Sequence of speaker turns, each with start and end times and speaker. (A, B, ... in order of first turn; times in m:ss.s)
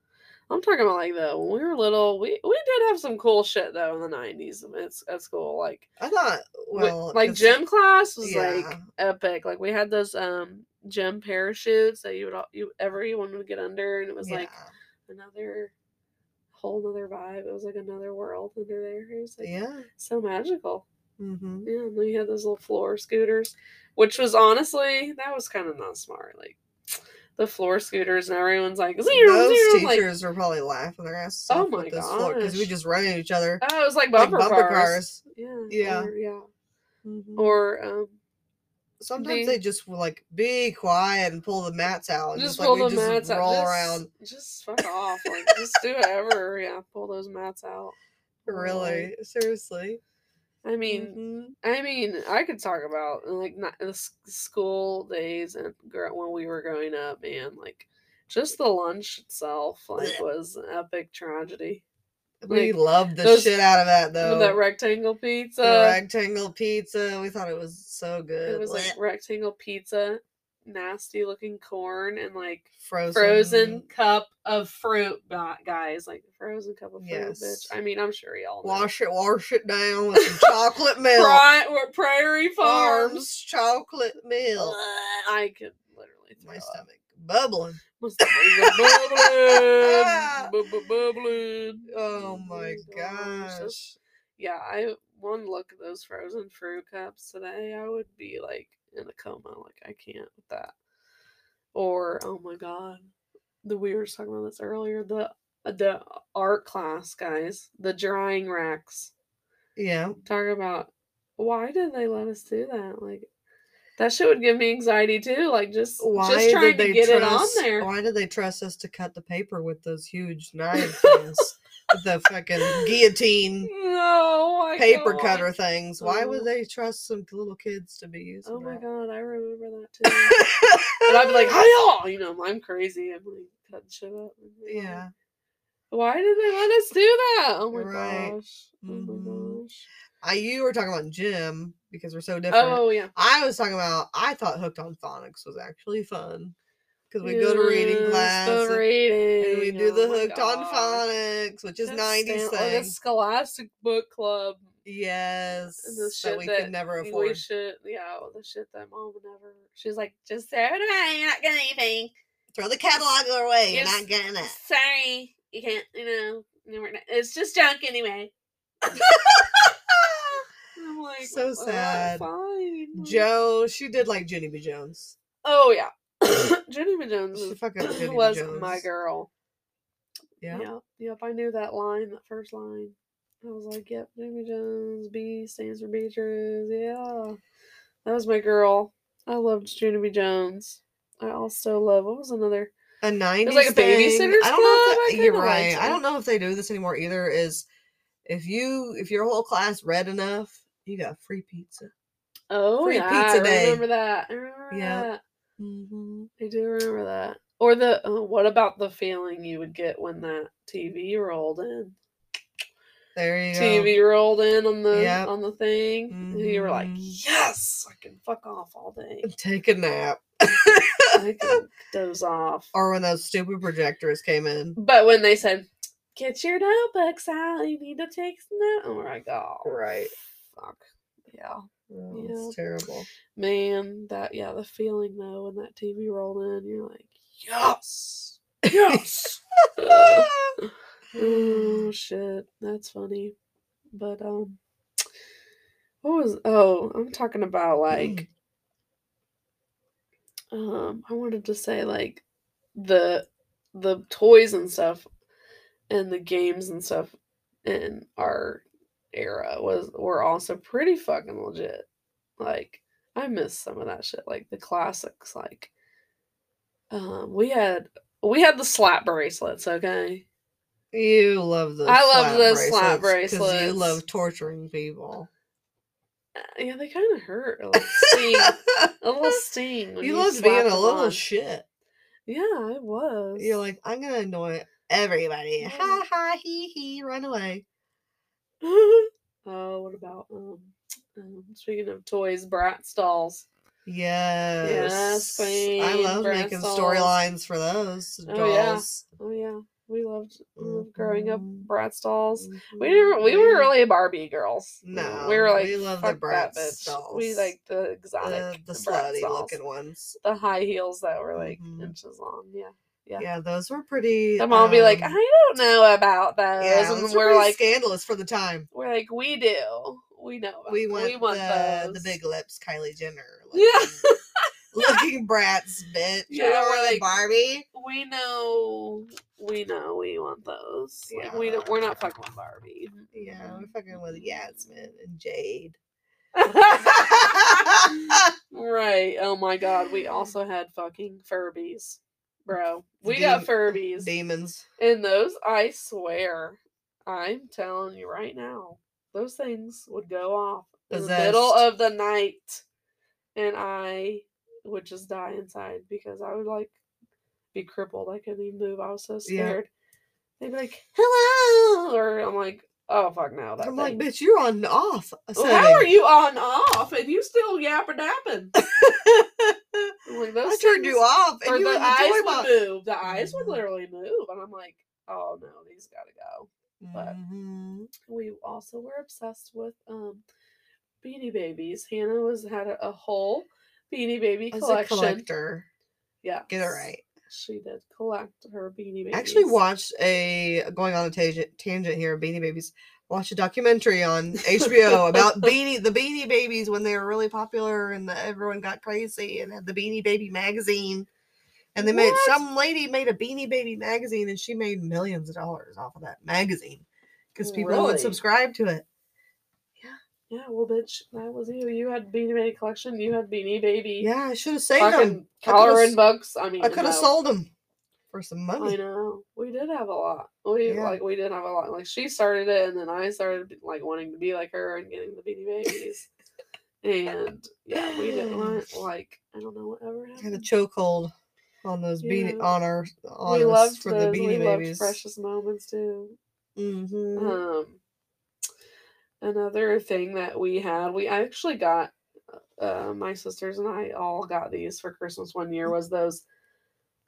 0:00.5-0:05.9 A
0:06.0-0:07.6 B
0:06.7-0:14.5 A
0:08.2-0:08.8 B
0:14.2-0:14.7 B
0:15.1-0:15.7 A
0:16.5-0:20.8 A
0:19.4-0:19.9 B
0:21.2-0:21.7 B
0:21.7-0:26.6 A
0:27.4-0:30.1 A
0:29.1-0:33.6 B
0:31.5-0:32.7 A
0:33.6-0:36.5 A
0:34.2-0:36.1 B
0:37.0-0:37.6 B
0:37.4-0:38.2 A
0:39.0-0:44.1 B
0:39.2-0:39.6 A
0:42.4-0:49.1 A
0:45.2-0:45.5 B
0:48.5-0:50.0 B
0:50.6-1:01.8 A
0:50.9-0:51.6 B
1:02.4-1:04.6 B
1:02.5-1:03.6 A
1:04.2-1:06.0 A
1:05.6-1:09.0 B
1:08.4-1:18.9 A
1:12.8-1:13.9 B
1:17.0-1:17.7 B
1:18.6-1:21.4 B
1:20.2-1:20.5 A
1:21.1-1:23.3 A
1:22.6-1:24.8 B
1:24.6-1:26.8 A
1:26.4-1:30.5 B
1:28.0-1:33.8 A
1:31.9-1:34.0 B
1:34.4-1:40.7 A
1:41.7-1:43.1 A
1:43.6-1:49.1 A
1:49.8-1:50.2 B
1:50.2-1:53.3 A
1:54.0-1:57.9 A
1:56.0-2:03.7 B
2:00.8-2:01.4 A
2:02.6-2:03.0 A
2:03.6-2:06.5 A
2:04.8-2:08.8 B
2:08.4-2:10.4 A
2:10.3-2:11.6 B
2:11.0-2:15.0 A
2:14.7-2:15.1 B
2:15.9-2:19.9 A
2:17.7-2:19.6 B
2:20.2-2:26.6 B
2:22.5-2:23.1 A
2:27.1-2:28.8 B
2:27.2-2:31.0 A
2:29.4-2:32.9 B
2:31.8-2:34.7 A
2:34.8-2:37.4 B
2:35.8-2:42.1 A
2:42.5-2:44.6 B
2:43.7-2:48.3 A
2:48.9-2:50.4 B
2:50.8-2:53.2 A
2:51.2-2:52.3 B
2:53.0-2:55.2 B
2:55.4-2:59.3 A
2:57.3-2:58.8 B
3:00.4-3:00.7 B
3:00.5-3:07.4 A
3:08.0-3:12.7 A
3:13.0-3:17.7 B
3:13.4-3:16.0 A
3:18.2-3:21.9 B
3:22.5-3:25.2 A
3:22.8-3:23.8 B
3:24.7-3:25.1 B
3:25.6-3:26.3 B
3:26.4-3:32.0 A
3:33.2-3:34.0 B
3:33.5-3:39.3 A
3:34.9-3:35.3 B
3:36.1-3:37.2 B
3:39.2-3:41.2 B
3:41.1-3:42.7 A
3:42.7-3:44.8 B
3:44.8-3:49.7 A
3:49.6-3:50.1 B
3:50.5-3:52.6 A
3:51.9-3:53.1 B
3:53.4-4:03.4 A
3:58.7-3:59.0 B
3:59.8-4:00.6 B
4:01.1-4:01.9 B
4:03.9-4:04.6 A
4:06.0-4:08.2 A
4:07.9-4:08.3 B
4:10.5-4:12.2 A
4:12.8-4:15.1 A
4:15.9-4:17.1 A
4:17.6-4:18.6 A
4:19.1-4:21.9 A
4:22.4-4:25.7 A
4:26.9-4:30.2 A
4:30.9-4:35.3 B
4:31.9-4:34.0 A
4:36.4-4:41.2 A
4:37.8-4:39.3 B
4:40.0-4:41.6 B
4:42.3-4:43.6 A
4:43.4-4:47.6 B
4:45.6-4:46.0 A
4:48.6-4:53.5 A
4:53.9-4:59.0 B
4:54.6-4:57.1 A
4:58.3-5:09.6 A
5:00.6-5:01.7 B
5:02.4-5:03.7 B
5:04.8-5:07.5 B
5:08.2-5:10.2 B
5:10.2-5:13.3 A
5:11.4-5:11.9 B
5:13.2-5:15.2 B
5:14.4-5:17.6 A
5:16.6-5:18.7 B
5:18.7-5:22.1 A
5:20.7-5:24.0 B
5:23.5-5:24.2 A
5:24.7-5:27.7 B
5:26.3-5:27.1 A
5:27.7-5:34.4 A
5:31.1-5:31.8 B
5:33.1-5:35.8 B
5:36.4-5:44.1 A
5:36.8-5:38.3 B
5:43.0-5:44.6 B
5:44.8-5:52.6 A
5:50.9-5:51.6 B
5:53.4-5:56.8 A
5:57.5-5:59.7 A
5:59.3-5:59.6 B
6:00.4-6:04.0 A
6:03.6-6:05.9 B
6:05.4-6:08.6 A
6:08.6-6:12.5 B
6:10.1-6:17.2 A
6:13.0-6:13.6 B
6:16.8-6:17.9 B
6:18.1-6:20.2 A
6:21.0-6:25.3 A
6:24.5-6:25.7 B
6:26.2-6:29.6 A
6:26.5-6:27.0 B
6:29.1-6:41.1 B
6:34.6-6:35.2 A
6:41.8-6:46.8 B
6:41.8-6:42.4 A
6:47.4-6:48.8 B
6:47.4-6:48.2 A
6:50.3-6:54.1 A
6:54.0-6:56.0 B
6:54.8-6:57.1 A
6:56.6-6:57.5 B
6:58.1-6:58.8 B
6:58.6-7:06.1 A
7:00.7-7:01.0 B
7:06.8-7:10.5 A
7:07.7-7:08.6 B
7:10.2-7:11.1 B
7:11.6-7:15.0 B
7:12.0-7:12.5 A
7:13.2-7:16.2 A
7:16.6-7:17.4 B
7:17.2-7:17.8 A
7:19.2-7:26.2 A